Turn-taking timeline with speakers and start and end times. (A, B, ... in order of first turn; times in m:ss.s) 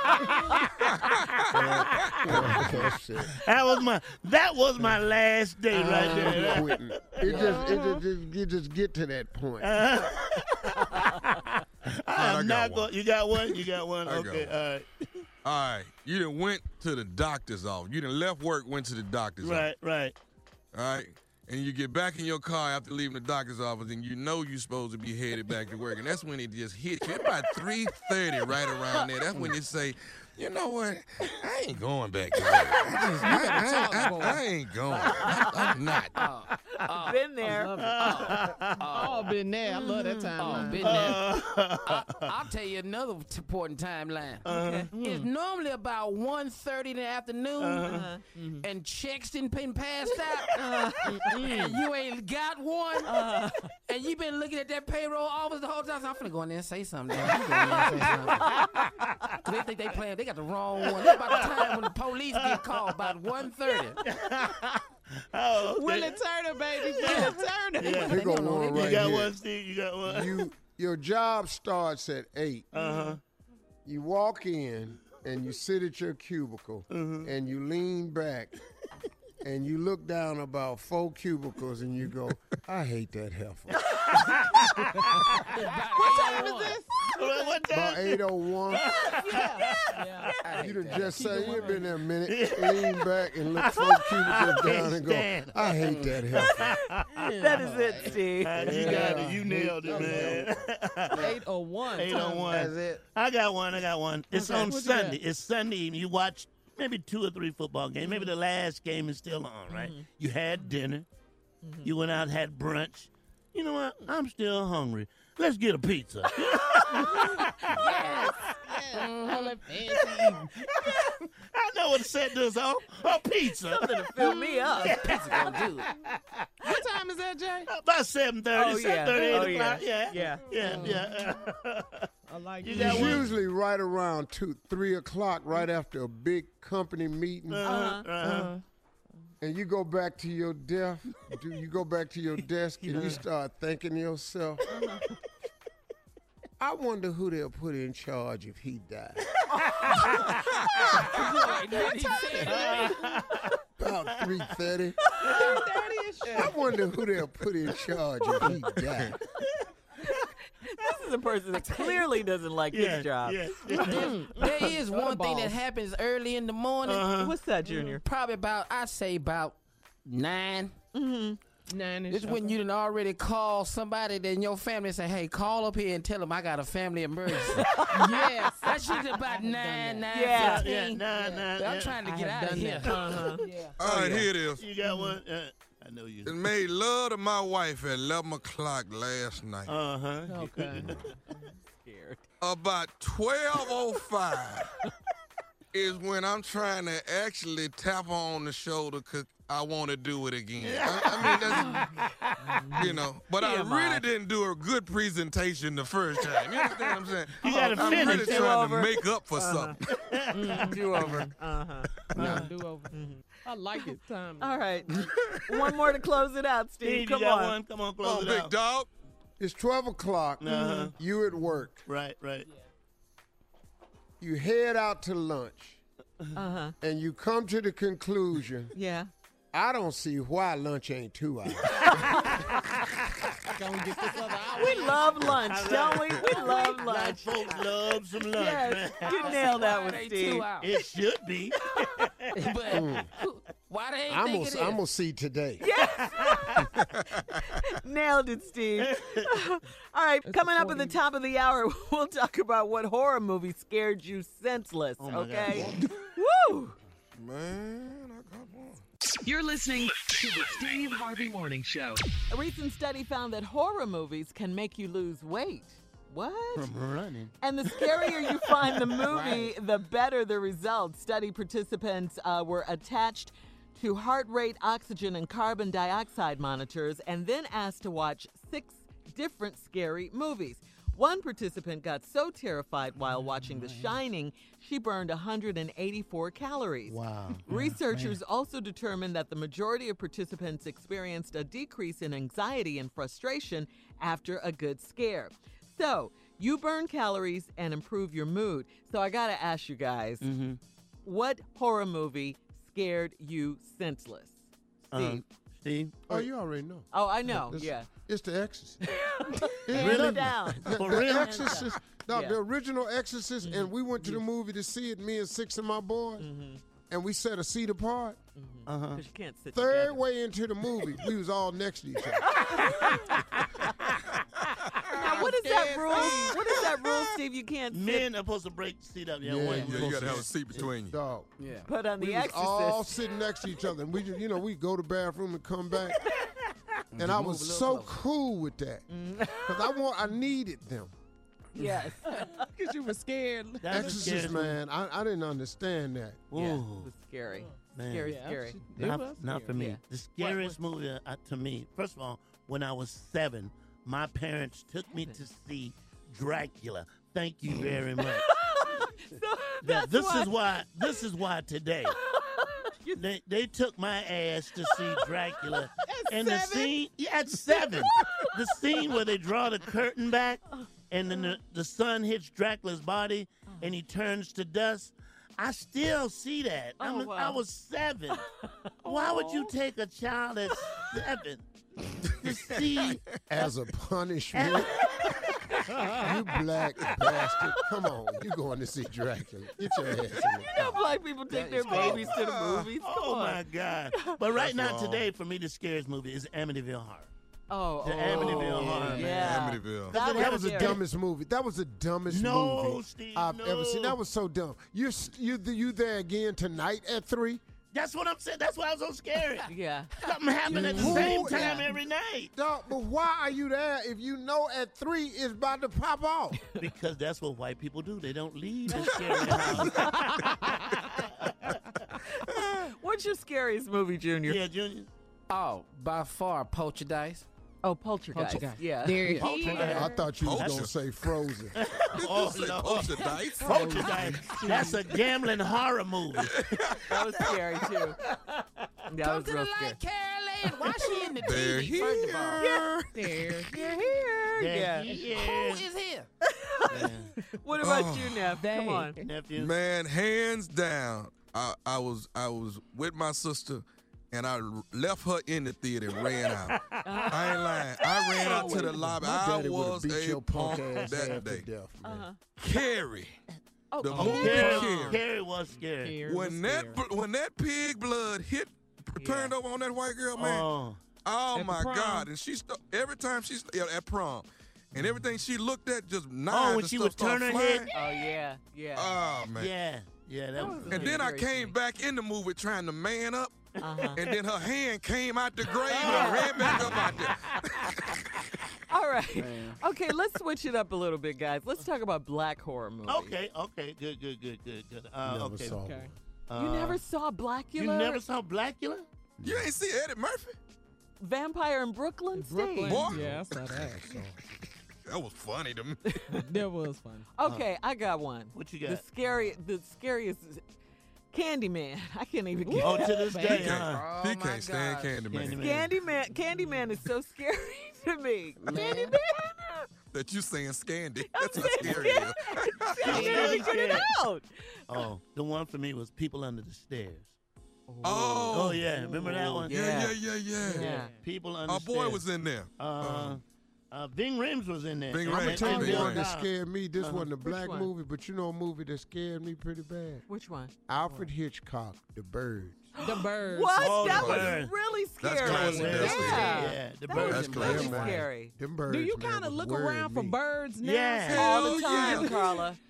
0:01.5-0:03.4 A
0:02.0-0:02.7 B
0:03.3-0:07.7 B
0:05.7-0:09.9 A
0:07.2-0:08.0 C
0:09.6-0:11.5 B
0:12.0-0:15.0 B
0:12.1-0:12.9 D
0:14.0-0:14.5 D
0:15.4-0:19.7 D
0:19.4-0:20.2 B
0:20.7-0:36.2 D
0:32.8-0:34.4 E
0:33.3-0:34.4 C
0:35.0-0:37.2 E
0:36.9-0:38.3 F
0:37.5-0:41.3 C
0:37.6-0:39.0 B
0:38.0-0:39.3 E
0:39.7-0:40.8 F
0:40.4-0:47.9 E
0:40.8-0:42.3 B
0:44.4-0:44.9 B
0:44.4-0:44.9 F
0:44.9-0:45.3 C
0:47.6-0:48.1 B
0:47.8-0:48.2 F
0:48.3-0:48.6 C
0:48.6-0:53.1 E
0:50.5-0:51.6 F
0:51.3-0:51.7 C
0:53.0-0:53.7 F
0:53.9-0:58.7 E
0:57.2-0:58.2 B
0:58.4-0:58.7 F
0:59.0-0:59.2 B
0:59.4-1:04.0 E
1:00.8-1:03.2 B
1:04.0-1:06.2 B
1:05.6-1:08.2 C
1:06.8-1:08.1 B
1:08.0-1:09.1 E
1:08.0-1:09.3 A
1:08.6-1:10.5 B
1:10.0-1:12.7 A
1:12.7-1:13.2 B
1:12.7-1:13.2 C
1:13.8-1:18.5 A
1:16.9-1:17.3 B
1:19.4-1:23.8 A
1:23.8-1:25.4 B
1:25.5-1:26.8 E
1:25.9-1:27.6 C
1:27.1-1:30.3 B
1:27.7-1:28.9 A
1:29.1-1:31.9 C
1:30.4-1:31.7 E
1:30.6-1:36.8 A
1:32.2-1:37.4 B
1:35.8-1:36.3 E
1:37.2-1:39.3 E
1:37.4-1:38.8 F
1:37.5-1:37.8 C
1:38.3-1:41.3 B
1:38.6-1:40.6 A
1:38.8-1:39.2 C
1:39.8-1:40.4 E
1:39.8-1:40.4 C
1:41.1-1:42.6 C
1:41.1-1:41.4 E
1:41.9-1:51.0 B
1:42.3-1:43.0 E
1:44.3-1:44.8 F
1:44.4-1:45.2 C
1:48.0-1:48.3 F
1:49.7-1:50.0 F
1:51.6-1:51.9 F
1:51.8-1:57.8 B
1:56.3-1:57.6 F
1:57.0-2:00.5 C
1:57.8-1:58.3 E
1:58.9-1:59.7 E
2:00.6-2:04.1 B
2:03.7-2:05.2 F
2:04.3-2:05.9 E
2:04.8-2:06.5 B
2:06.6-2:07.7 C
2:07.7-2:12.1 B
2:08.5-2:10.9 F
2:09.1-2:09.5 C
2:10.2-2:11.4 C
2:12.3-2:13.2 C
2:12.6-2:13.3 B
2:12.7-2:17.6 A
2:17.5-2:18.5 B
2:17.6-2:18.1 F
2:18.2-2:18.6 C
2:19.4-2:24.8 A
2:22.8-2:23.2 B
2:26.6-2:29.2 A
2:29.6-2:30.4 B
2:31.0-2:32.9 E
2:32.4-2:33.4 F
2:32.4-2:33.4 B
2:33.8-2:35.0 A
2:35.1-2:35.6 F
2:35.2-2:36.7 C
2:35.2-2:35.5 B
2:36.3-2:39.2 A
2:40.0-2:44.7 F
2:42.7-2:44.2 B
2:43.7-2:45.6 C
2:43.8-2:47.1 E
2:46.8-2:47.3 B
2:47.2-2:48.0 F
2:48.0-2:50.7 E
2:50.9-2:51.4 F
2:51.7-2:52.6 C
2:52.1-3:03.0 E
2:57.6-2:58.3 F
2:57.9-3:00.6 C
3:00.1-3:00.7 F
3:00.4-3:02.0 B
3:02.0-3:03.8 C
3:02.8-3:03.5 F
3:02.9-3:06.4 B
3:03.8-3:04.6 D
3:04.8-3:05.1 C
3:06.2-3:09.7 D
3:09.6-3:11.0 B
3:10.3-3:11.0 C
3:11.8-3:12.2 F
3:12.4-3:14.7 D
3:15.7-3:21.8 D
3:20.6-3:22.9 B
3:22.4-3:24.0 F
3:22.8-3:29.8 D
3:26.3-3:28.8 B
3:27.5-3:29.8 F
3:29.8-3:31.2 B
3:30.3-3:31.2 C
3:30.5-3:32.0 F
3:32.1-3:32.5 B
3:32.1-3:35.0 C
3:32.9-3:33.2 F
3:33.8-3:37.5 F
3:35.0-3:35.5 D
3:36.8-3:38.5 B
3:38.0-3:38.9 D
3:39.4-3:41.8 A
3:40.4-3:40.9 B
3:41.8-3:42.5 B
3:44.2-3:45.8 A
3:46.3-3:46.7 F
3:46.8-3:48.7 A
3:48.7-3:49.1 F
3:49.5-3:52.0 A
3:52.0-3:53.0 B
3:53.5-3:55.3 C
3:54.5-3:57.6 F
3:55.2-3:59.8 B
3:56.3-3:56.8 C
3:58.3-4:00.5 F
3:59.0-4:00.7 E
4:00.6-4:02.3 B
4:02.3-4:04.8 E
4:02.7-4:03.1 A
4:04.1-4:05.6 A
4:05.6-4:06.7 F
4:05.8-4:06.7 B
4:07.4-4:16.8 F
4:08.8-4:09.3 B
4:10.2-4:11.0 C
4:15.0-4:15.8 B
4:17.2-4:18.8 D
4:19.2-4:22.0 G
4:22.3-4:26.7 F
4:26.5-4:27.3 B
4:27.4-5:00.2 F
4:29.1-4:29.5 E
4:46.9-4:47.4 B
5:00.2-5:00.6 B
5:01.0-5:04.4 F
5:04.9-5:06.2 B
5:04.9-5:05.2 F
5:06.1-5:08.8 A
5:06.9-5:07.9 F
5:08.8-5:12.4 F
5:09.6-5:16.3 A
5:09.7-5:11.7 B
5:13.4-5:14.1 F
5:16.2-5:16.6 F
5:16.9-5:18.2 A
5:18.4-5:20.0 F
5:18.6-5:19.0 B
5:19.5-5:22.6 A
5:22.3-5:23.2 F
5:24.8-5:26.6 C
5:24.9-5:28.1 F
5:27.7-5:30.6 B
5:29.2-5:31.3 A
5:29.6-5:31.0 D
5:31.4-5:31.7 E
5:31.7-5:33.0 F
5:32.0-5:36.1 A
5:36.9-5:38.0 E
5:37.0-5:40.9 A
5:38.9-5:39.8 F
5:41.5-5:42.4 F
5:42.1-5:44.2 C
5:43.6-5:44.6 B
5:43.7-5:46.2 A
5:46.3-5:46.9 B
5:46.3-5:48.7 F
5:47.7-5:58.3 B
5:48.1-5:49.6 C
5:49.5-5:50.6 F
5:54.9-5:55.2 F
5:58.0-6:01.0 F
5:59.6-6:02.0 B
6:02.1-6:03.0 F
6:02.9-6:18.2 B
6:04.7-6:05.1 F
6:05.8-6:07.8 C
6:16.8-6:17.4 F
6:18.8-6:21.4 B
6:19.0-6:19.3 F
6:22.1-6:23.0 B
6:23.3-6:24.8 A
6:24.3-6:25.1 B
6:25.8-6:30.8 A
6:30.5-6:33.4 F
6:31.3-6:32.1 E
6:31.6-6:32.1 B
6:31.7-6:32.0 C
6:32.1-6:32.7 D
6:32.8-6:37.1 B
6:33.9-6:34.2 F
6:34.4-6:35.0 D
6:37.5-6:40.8 F
6:37.8-6:40.8 B
6:38.2-6:39.0 C
6:38.6-6:38.9 A
6:39.1-6:40.0 D
6:39.9-6:47.4 A
6:42.1-6:44.0 B
6:47.7-6:52.3 B
6:49.5-6:49.9 F
6:50.5-6:51.2 E
6:50.5-6:51.7 A
6:50.6-6:51.0 C
6:52.3-6:56.4 A
6:56.6-7:00.3 B
6:58.7-7:00.1 F
6:59.8-7:00.7 C
7:01.0-7:01.6 B
7:02.2-7:04.4 F
7:04.2-7:04.9 B
7:05.3-7:07.3 E
7:07.6-7:09.3 F
7:08.1-7:09.9 E
7:08.8-7:10.1 C
7:09.1-7:10.7 B
7:09.4-7:11.6 A
7:10.1-7:10.7 D
7:11.5-7:16.7 B
7:11.9-7:13.8 D
7:13.0-7:14.5 E
7:13.4-7:15.0 C
7:16.2-7:17.3 D
7:16.9-7:18.0 F
7:18.9-7:19.8 F
7:19.0-7:22.4 E
7:21.2-7:23.4 D
7:22.9-7:24.2 C
7:23.5-7:25.0 F
7:24.4-7:25.7 B
7:24.9-7:26.1 E
7:26.2-7:29.0 F
7:26.7-7:27.1 B
7:27.6-7:28.3 D
7:28.4-7:29.0 C
7:29.0-7:29.5 B
7:29.3-7:36.6 D
7:36.0-7:38.3 B
7:36.8-7:37.6 F
7:37.1-7:41.4 D
7:38.2-7:38.6 F
7:38.2-7:38.8 C
7:38.6-7:42.1 A
7:40.5-7:41.1 B
7:41.8-7:42.2 F
7:42.4-7:43.2 D
7:43.7-7:45.0 C
7:43.8-7:45.0 D
7:43.9-7:46.1 B
7:45.7-7:46.8 C
7:46.0-7:50.5 D
7:49.0-7:49.3 F
7:50.1-7:50.8 B
7:51.0-7:57.7 D
7:51.3-7:52.1 C
7:56.3-7:57.7 B
7:57.7-7:58.9 F
7:58.7-7:59.5 D
7:59.3-8:01.1 B
8:00.4-8:01.5 F
8:00.7-8:08.0 D
8:03.6-8:04.0 F
8:05.6-8:07.0 B
8:05.7-8:07.0 F
8:08.7-8:13.1 F
8:09.2-8:09.6 E
8:12.9-8:15.6 B
8:15.0-8:15.9 A
8:15.5-8:15.9 C
8:16.3-8:16.8 B
8:16.3-8:18.0 F
8:17.6-8:18.8 B
8:19.2-8:19.5 A
8:19.2-8:20.4 D
8:21.0-8:22.9 F
8:22.2-8:23.8 C
8:22.6-8:23.8 D
8:22.9-8:24.2 A
8:24.8-8:25.8 D
8:25.9-8:26.2 F
8:26.2-8:27.1 C
8:27.2-8:30.4 F
8:28.3-8:28.9 B
8:31.1-8:33.4 F
8:32.4-8:33.6 C
8:32.6-8:33.9 B
8:33.2-8:35.4 D
8:33.6-8:35.0 E
8:35.1-8:35.7 B
8:35.4-8:39.7 F
8:36.3-8:36.7 C
8:38.4-8:39.0 E
8:39.9-8:43.1 D
8:41.1-8:44.8 F
8:42.8-8:43.9 B
8:42.9-8:43.8 C
8:44.7-8:47.1 B
8:47.7-8:50.9 F
8:47.8-8:48.6 D
8:48.3-8:49.7 B
8:48.7-8:49.1 C
8:49.5-8:50.7 D
8:50.3-8:51.0 C
8:50.5-8:52.0 B
8:51.5-8:53.2 D
8:52.6-8:56.3 B
8:54.9-8:56.1 D
8:55.1-9:00.0 A
8:56.8-8:57.1 B
8:57.1-8:57.7 F
9:00.1-9:00.5 F
9:00.7-9:02.7 A
9:02.8-9:08.3 F
9:02.8-9:04.1 C
9:03.6-9:04.5 B
9:03.8-9:04.4 D
9:05.0-9:06.4 D
9:05.2-9:07.9 B
9:05.8-9:06.6 C
9:07.0-9:07.9 D
9:07.1-9:08.0 E
9:07.3-9:10.2 A
9:08.7-9:12.4 C
9:10.6-9:11.5 B
9:11.1-9:12.2 D
9:11.1-9:12.6 F